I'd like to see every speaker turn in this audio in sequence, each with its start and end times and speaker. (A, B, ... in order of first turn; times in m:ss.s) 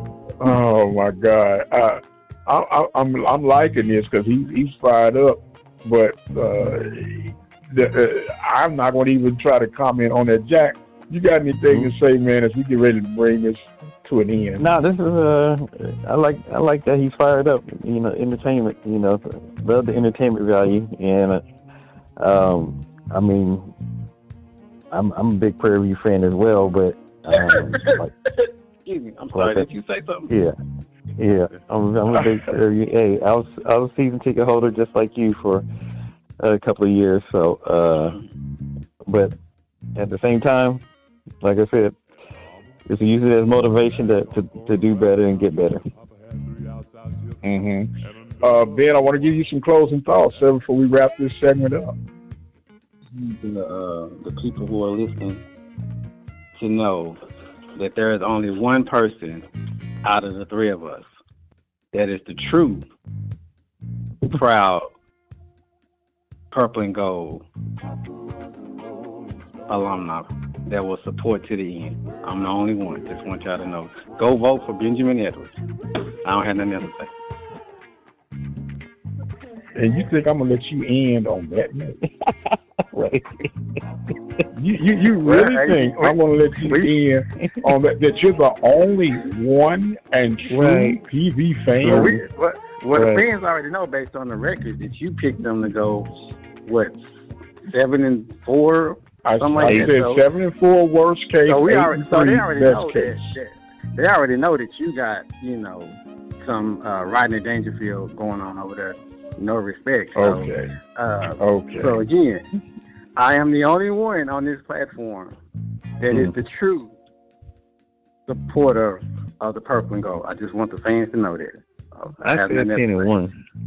0:00.4-0:14.6 A
0:14.6-0:21.5 B
0:22.2-0:23.7 B
0:24.9-0:28.1 B
0:27.3-0:30.3 C
0:29.3-0:29.7 B
0:30.3-0:30.5 B
0:31.2-0:35.6 B
0:36.4-0:38.2 B
0:39.0-0:39.4 B
0:39.9-0:40.8 B
0:41.4-0:42.0 B
0:42.8-0:45.8 B
0:47.4-0:51.9 A
0:53.1-0:55.4 C
0:56.5-0:57.2 C
0:57.8-0:59.5 C
1:00.0-1:01.1 C
1:01.9-1:02.8 C
1:04.2-1:04.9 C
1:06.5-1:07.4 C
1:09.7-1:15.6 C
1:16.2-1:17.1 C
1:19.7-1:22.0 A
1:22.9-1:23.3 B
1:24.5-1:32.2 A
1:25.2-1:26.2 C
1:30.5-1:31.0 B
1:31.8-1:32.2 B
1:31.8-1:37.1 C
1:32.9-1:33.2 B
1:37.6-1:40.2 C
1:39.2-1:43.3 A
1:39.6-1:39.9 B
1:41.5-1:52.4 C
1:50.1-1:50.7 A
1:51.4-1:52.0 A
1:53.2-1:55.4 C
1:56.0-1:56.9 C
1:56.1-1:56.4 B
1:58.3-2:03.0 C
2:02.2-2:03.4 B